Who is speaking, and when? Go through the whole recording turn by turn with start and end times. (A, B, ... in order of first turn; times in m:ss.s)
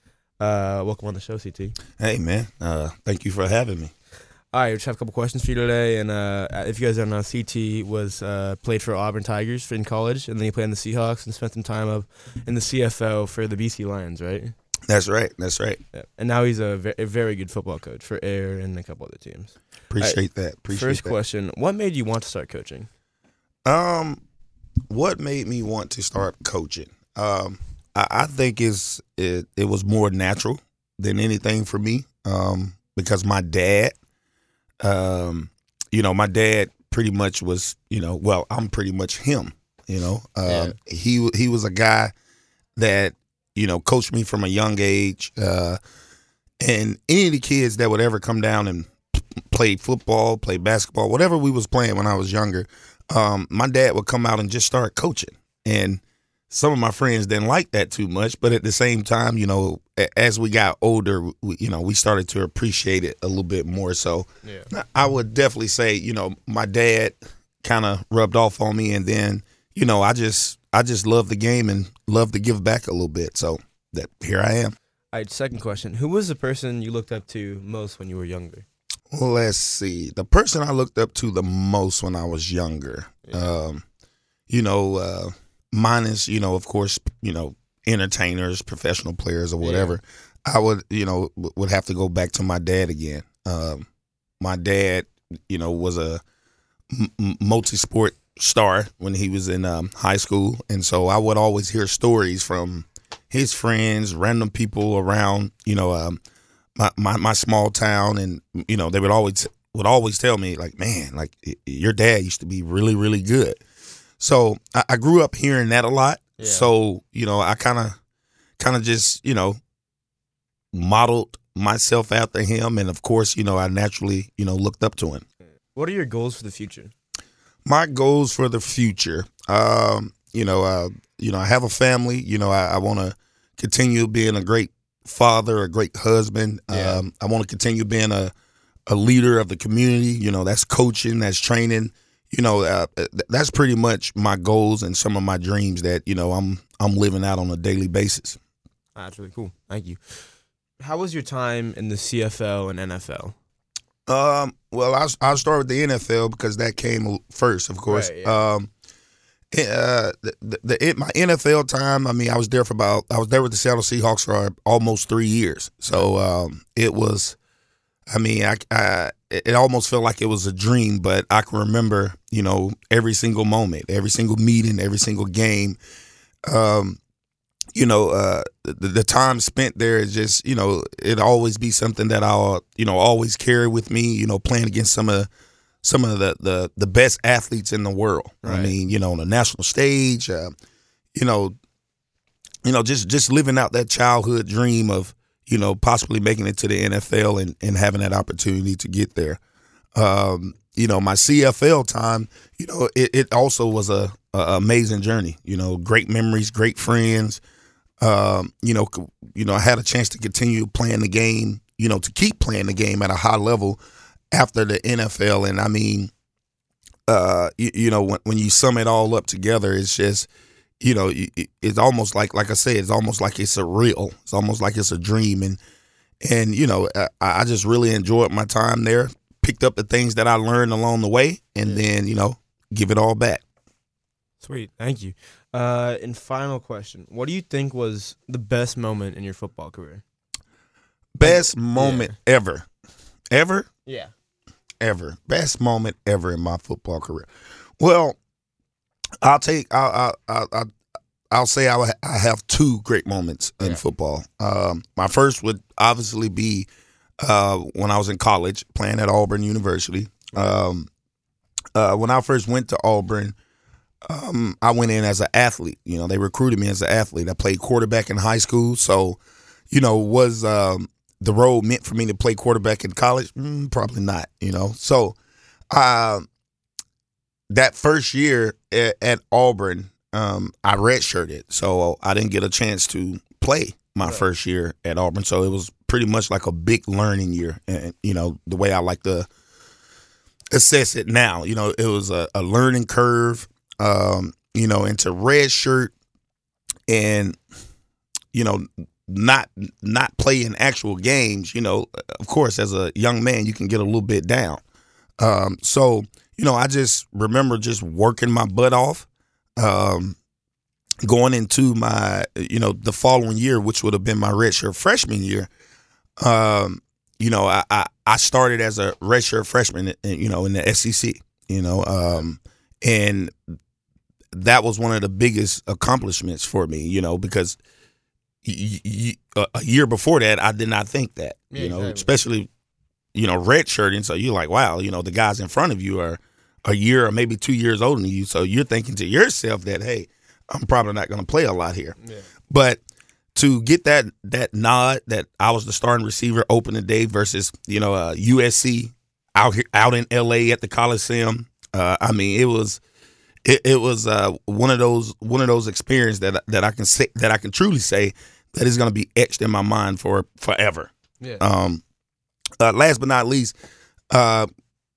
0:00.4-0:01.8 A
0:02.0-0:03.9 B
0:04.5-0:14.5 A
0:14.9-0:15.8 B
0:15.9-0:20.2 A
0:19.9-0:21.2 B
0:20.7-0:22.9 A
0:23.6-0:24.2 B
0:24.9-0:33.9 B
0:34.8-0:42.1 B
0:40.4-0:40.7 A
0:42.8-0:45.8 B
0:46.6-1:14.7 B
1:15.1-1:18.6 A
1:19.1-1:23.8 B
1:23.3-1:23.5 A
1:24.5-1:33.8 B
1:29.6-1:29.9 A
1:34.4-1:36.2 B
1:36.9-1:46.2 B
1:46.8-1:53.6 B
1:54.2-1:58.0 B
1:56.4-1:56.7 A
1:58.6-1:59.6 B
2:00.7-2:05.2 B
2:05.7-2:06.9 A
2:07.6-2:18.3 B
2:16.7-2:17.0 A
2:18.9-2:28.4 B
2:28.9-2:30.0 A
2:30.8-2:33.3 A
2:34.1-2:38.7 B
2:37.9-2:38.4 A
2:39.5-2:47.4 B
2:48.1-2:55.8 B
2:56.5-2:57.0 B
2:57.7-3:05.3 B
3:05.8-3:10.5 B
3:08.4-3:08.7 A
3:11.1-3:11.5 B
3:12.6-3:19.4 B
3:19.9-3:27.4 B
3:28.0-3:33.8 B
3:34.3-3:36.1 B
3:37.1-3:40.3 B
3:40.8-3:45.6 B
3:46.2-3:53.4 B
3:54.4-4:00.0 A
4:01.1-4:02.6 B
4:01.2-4:02.1 A
4:03.3-4:03.7 B
4:03.8-4:04.1 A
4:04.8-4:07.3 B
4:07.8-4:08.2 B
4:09.2-4:10.7 B
4:11.3-4:16.7 B
4:17.2-4:20.9 B
4:21.7-4:23.3 B
4:24.0-4:29.2 B
4:29.7-4:35.2 B
4:35.7-4:36.3 B
4:37.5-4:49.3 B
4:50.5-4:55.9 B
4:56.9-4:57.4 B
4:58.3-5:04.6 B
5:05.2-5:10.2 B
5:11.0-5:15.5 B
5:16.2-5:23.3 B
5:24.3-5:27.6 B
5:28.4-5:32.5 B
5:31.5-5:32.2 A
5:33.1-5:42.0 B
5:42.0-5:42.2 A
5:42.5-5:42.8 B
5:43.3-5:52.8 B
5:53.4-6:01.8 B
6:02.6-6:03.5 B
6:04.1-6:04.5 B